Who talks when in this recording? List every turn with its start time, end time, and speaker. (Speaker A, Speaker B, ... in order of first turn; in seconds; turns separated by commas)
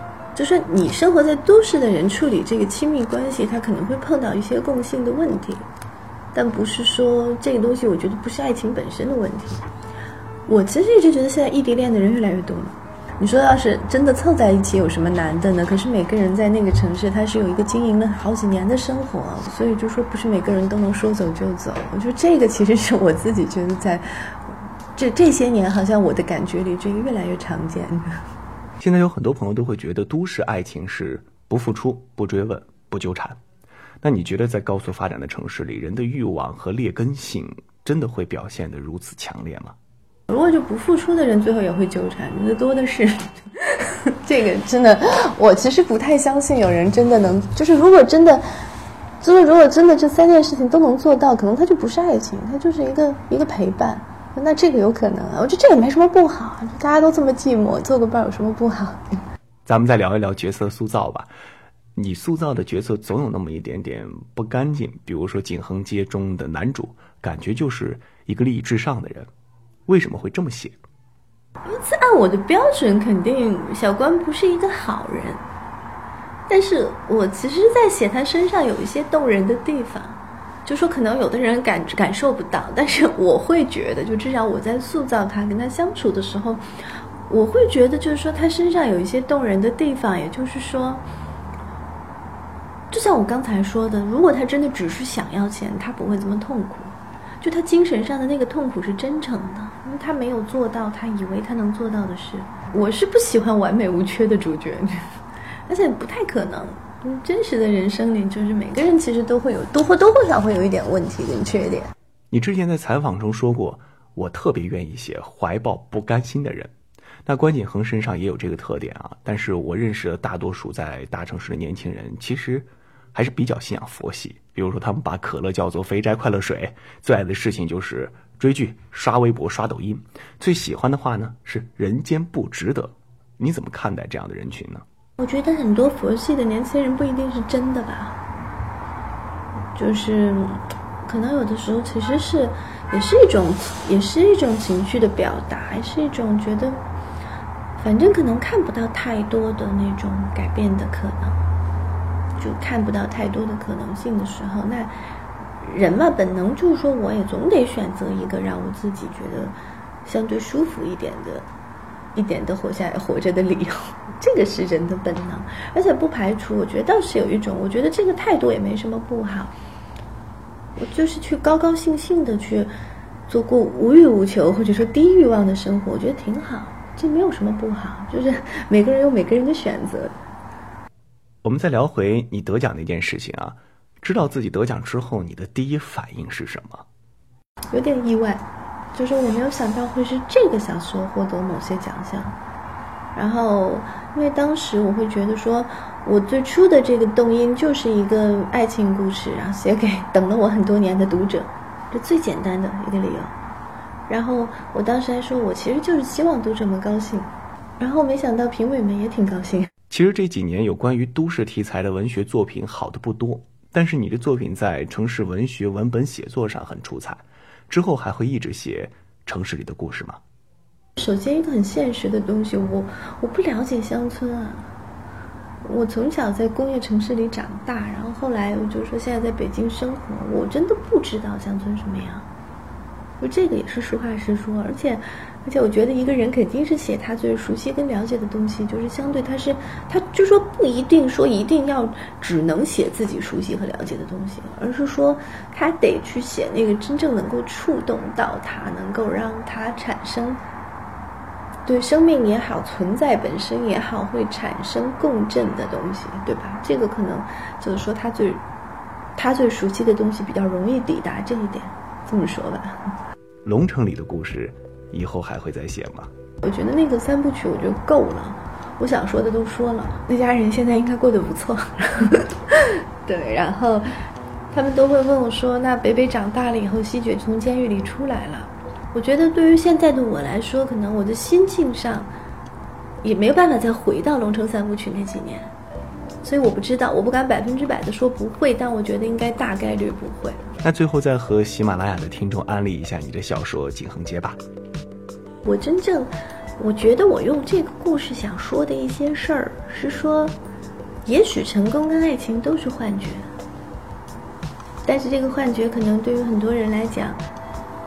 Speaker A: 0.3-5.6, Speaker A: 6.3-9.6, Speaker A: 10.5-28.2, Speaker B: 28.8-33.4, Speaker B: 34.0-39.7, Speaker A: 40.3-48.4, Speaker A: 49.2-59.0, Speaker B: 59.6-61.3, Speaker B: 61.9-69.3, Speaker B: 69.9-70.8, Speaker A: 71.6-75.4, Speaker A: 76.5-86.6, Speaker A: 87.3-91.0, Speaker A: 92.9-105.0, Speaker A: 105.7-111.9, Speaker B: 112.3-116.7, Speaker B: 117.2-134.8, Speaker A: 135.2-138.2, Speaker A: 139.7-146.8, Speaker A: 147.8-151.4, Speaker A: 152.4-154.9, Speaker A: 155.6-161.4, Speaker A: 162.1-169.5, Speaker A: 170.8-172.7, Speaker A: 173.3-180.1, Speaker B: 181.4-186.8, Speaker A: 187.7-188.4, Speaker A: 188.9-192.4, Speaker A: 193.1-203.3, Speaker A: 204.1-209.7, Speaker B: 209.9-220.2, Speaker A: 221.0-224.7, Speaker A: 225.6-232.3, Speaker A: 233.2-250.4, Speaker A: 251.7-258.4, Speaker A: 259.1-262.8, Speaker B: 263.4-266.1, Speaker A: 266.4-273.9, Speaker A: 274.5-282.1, Speaker A: 283.0-285.5, Speaker A: 286.2-290.5, Speaker B: 290.6-294.4, Speaker A: 295.4-300.4, Speaker A: 301.0-303.3, Speaker A: 304.8-307.2